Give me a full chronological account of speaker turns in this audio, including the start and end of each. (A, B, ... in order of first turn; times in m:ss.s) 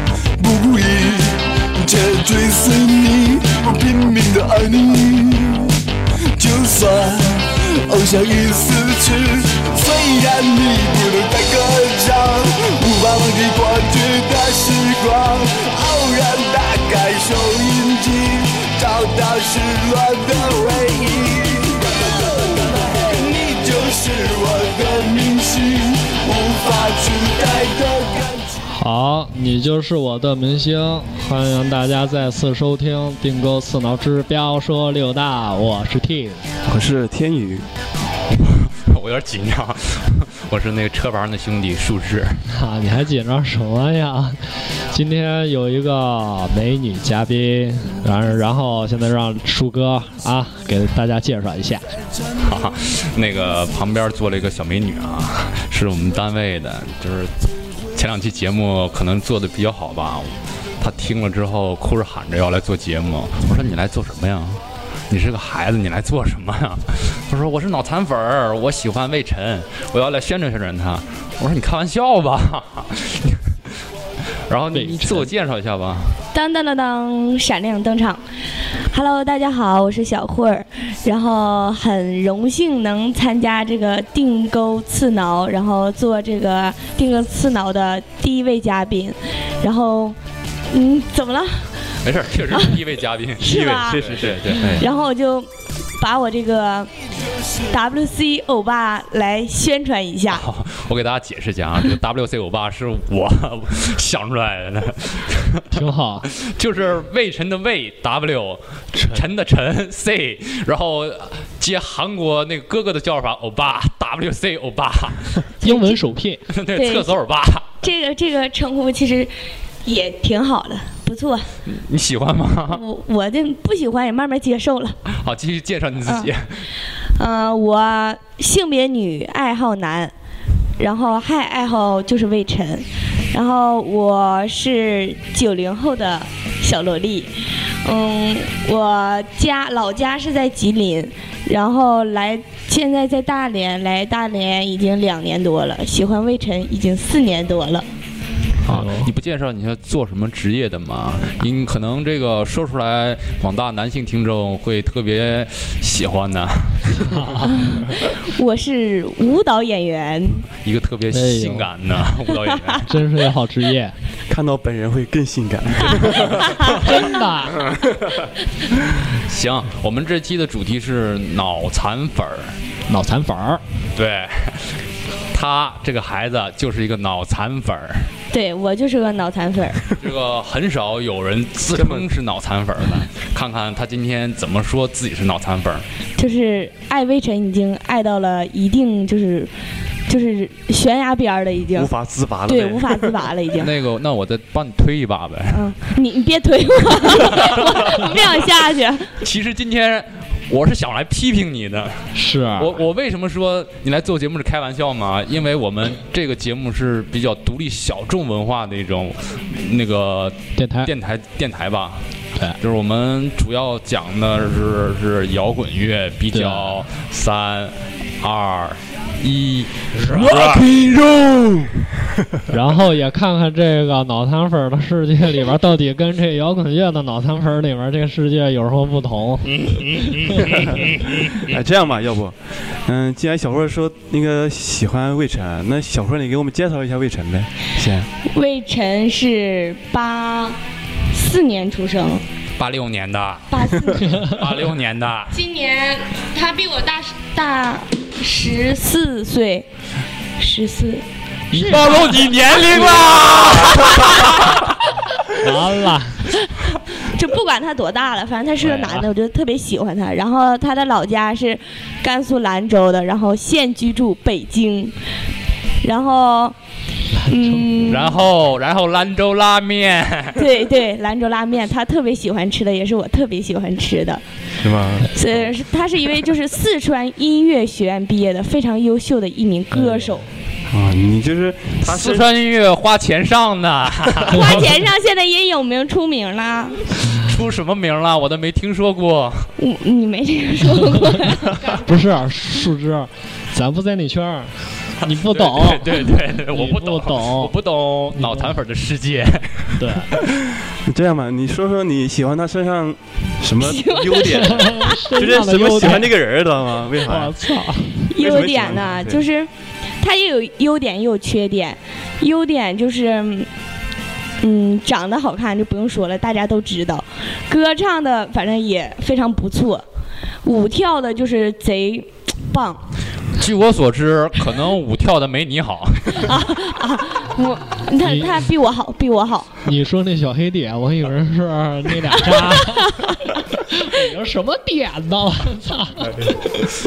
0:00.4-0:05.8 A
0:06.4-0:28.6 A
0:28.7-0:36.4 B
0:36.6-0:37.7 C
0:38.3-0:42.4 D
0:42.5-0:51.8 B
0:52.4-1:13.5 D
1:14.5-1:16.2 D
1:14.7-1:15.3 B
1:16.3-1:18.2 E
1:18.9-1:30.2 E
1:30.7-1:31.6 E
1:32.0-1:34.8 D
1:32.5-1:32.8 E
1:33.4-1:34.0 E
1:33.9-1:34.9 C
1:34.6-1:36.9 E
1:37.7-1:40.4 E
1:40.3-1:55.5 D
1:45.7-1:46.3 B
1:55.6-1:56.0 E
1:55.6-1:56.4 B
1:56.5-1:57.7 D
1:56.7-1:57.2 E
1:57.8-1:59.3 E
1:59.8-2:01.5 E
2:01.7-2:02.8 D
2:02.7-2:05.0 E
2:05.1-2:06.6 D
2:07.2-2:10.1 E
2:10.8-2:17.3 E
2:17.8-2:27.8 E
2:28.6-2:37.1 D
2:28.7-2:29.1 B
2:37.0-2:37.5 B
2:37.4-2:40.4 E
2:40.6-2:42.9 D
2:41.1-2:41.7 B
2:42.4-2:42.8 E
2:42.8-2:43.9 B
2:44.3-2:46.8 C
2:46.8-2:47.6 B
2:48.9-2:52.6 D
2:52.9-2:53.6 B
2:53.9-2:54.8 D
2:55.3-2:58.1 D
2:58.3-2:59.9 E
2:59.9-3:05.8 D
3:01.7-3:02.1 C
3:06.2-3:09.5 E
3:10.1-3:11.9 E
3:11.7-3:13.3 C
3:12.5-3:13.7 E
3:13.5-3:15.7 D
3:15.5-3:19.1 E
3:17.0-3:18.2 D
3:19.2-3:32.0 D
3:22.1-3:22.8 B
3:30.6-3:30.9 B
3:32.6-3:40.7 D
3:36.3-3:36.8 B
3:40.0-3:41.8 C
3:42.5-3:49.6 B
3:49.4-3:51.6 D
3:50.3-3:50.6 B
3:50.8-3:58.1 C
3:58.3-4:00.6 E
4:01.1-4:02.2 E
4:02.6-4:05.3 D
4:03.5-4:04.2 E
4:05.3-4:09.7 E
4:10.4-4:14.6 E
4:11.5-4:14.8 D
4:15.3-4:16.3 B
4:17.0-4:24.9 E
4:18.6-4:19.0 B
4:25.8-4:26.5 E
4:27.2-4:27.6 B
4:27.2-4:28.2 E
4:27.8-4:30.5 D
4:30.4-4:34.2 E
4:34.6-4:35.1 C
4:35.1-4:40.3 E
4:39.7-4:40.1 B
4:40.7-4:42.3 C
4:41.8-4:44.9 D
4:44.3-4:46.8 E
4:47.1-4:49.5 D
4:49.6-4:51.8 E
4:51.8-4:57.5 B
4:55.2-5:00.3 D
4:58.1-4:58.5 B
4:59.8-5:00.1 B
5:00.4-5:07.5 C
5:03.6-5:05.0 E
5:04.4-5:06.1 B
5:07.0-5:08.1 B
5:08.1-5:09.5 E
5:08.2-5:09.2 C
5:10.0-5:13.5 E
5:14.4-5:19.8 E
5:20.4-5:22.8 E
5:23.3-5:26.3 D
5:26.1-5:29.5 E
5:28.0-5:28.3 B
5:29.6-5:36.2 B
5:32.2-5:33.1 E